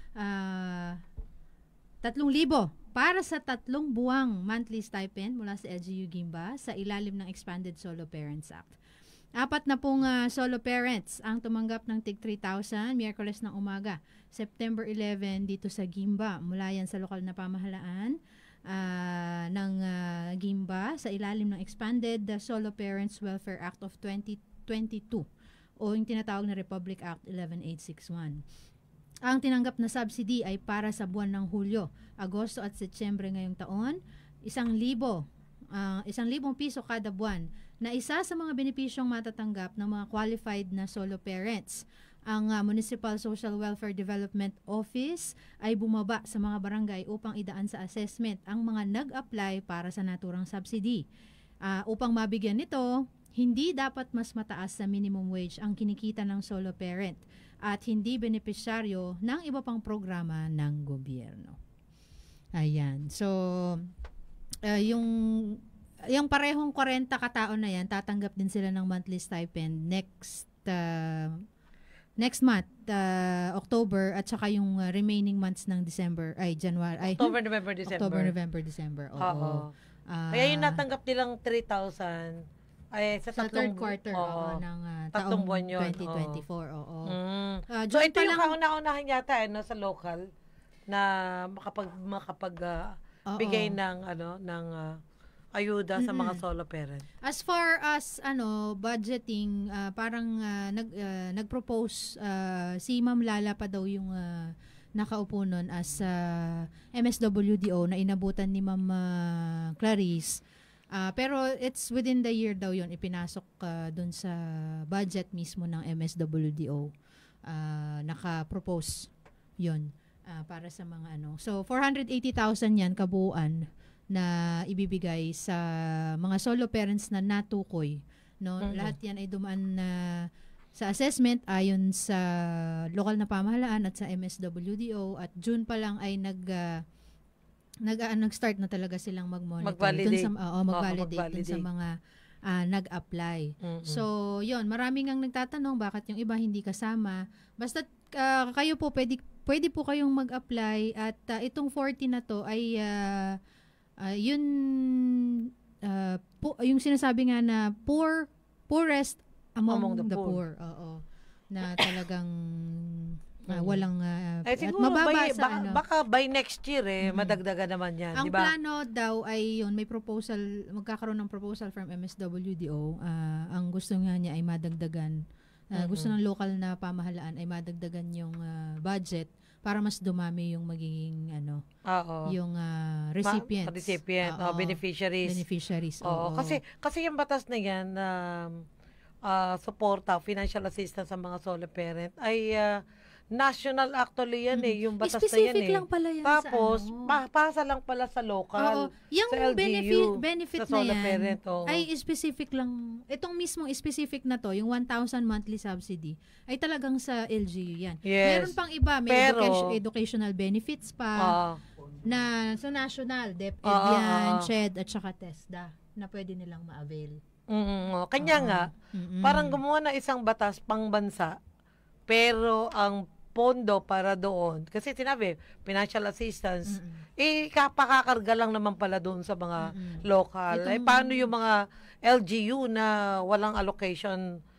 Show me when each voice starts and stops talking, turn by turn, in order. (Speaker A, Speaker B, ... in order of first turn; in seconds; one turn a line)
Speaker A: 0.2-1.0
Speaker A: 2.0-8.8
Speaker A: 9.4-18.1
Speaker A: 18.7-25.3
Speaker A: 25.8-28.4
Speaker A: 29.2-35.2
Speaker A: 35.8-51.0
Speaker A: 51.6-61.6
Speaker A: 62.5-63.9
Speaker A: 64.7-65.6
Speaker A: 66.1-71.4
Speaker A: 72.2-77.3
Speaker B: 77.0-78.3
Speaker A: 77.8-80.8
Speaker B: 79.2-79.7
Speaker B: 80.3-82.4
Speaker B: 82.9-84.6
Speaker A: 83.3-87.1
Speaker B: 85.1-86.4
Speaker B: 87.1-90.2
Speaker A: 87.7-88.5
Speaker B: 90.9-95.0
Speaker A: 93.3-93.8
Speaker B: 95.5-97.0
Speaker A: 96.0-96.4
Speaker A: 97.2-110.4
Speaker A: 110.9-116.9
Speaker A: 117.5-119.1
Speaker A: 119.6-136.8
Speaker B: 128.6-128.9
Speaker A: 137.8-141.9
Speaker B: 139.6-141.6
Speaker A: 142.5-153.4
Speaker B: 143.6-144.0
Speaker A: 154.0-155.2
Speaker A: 155.8-161.0
Speaker B: 159.7-160.4
Speaker A: 161.5-165.8
Speaker B: 163.5-163.8
Speaker B: 164.4-168.5
Speaker A: 167.0-167.4
Speaker A: 168.2-175.2
Speaker A: 175.7-181.6
Speaker B: 175.8-176.1
Speaker B: 181.9-182.3
Speaker A: 182.3-186.6
Speaker B: 183.2-185.4
Speaker B: 186.0-188.6
Speaker B: 189.3-192.8
Speaker B: 193.3-201.8
Speaker A: 194.5-197.2
Speaker A: 198.6-211.3
Speaker B: 208.0-208.6
Speaker B: 209.1-209.7
Speaker B: 211.2-211.6
Speaker A: 212.0-217.2
Speaker B: 213.7-214.5
Speaker B: 217.5-221.3
Speaker A: 218.2-219.6
Speaker B: 222.1-234.2
Speaker A: 226.7-227.0
Speaker A: 229.6-231.3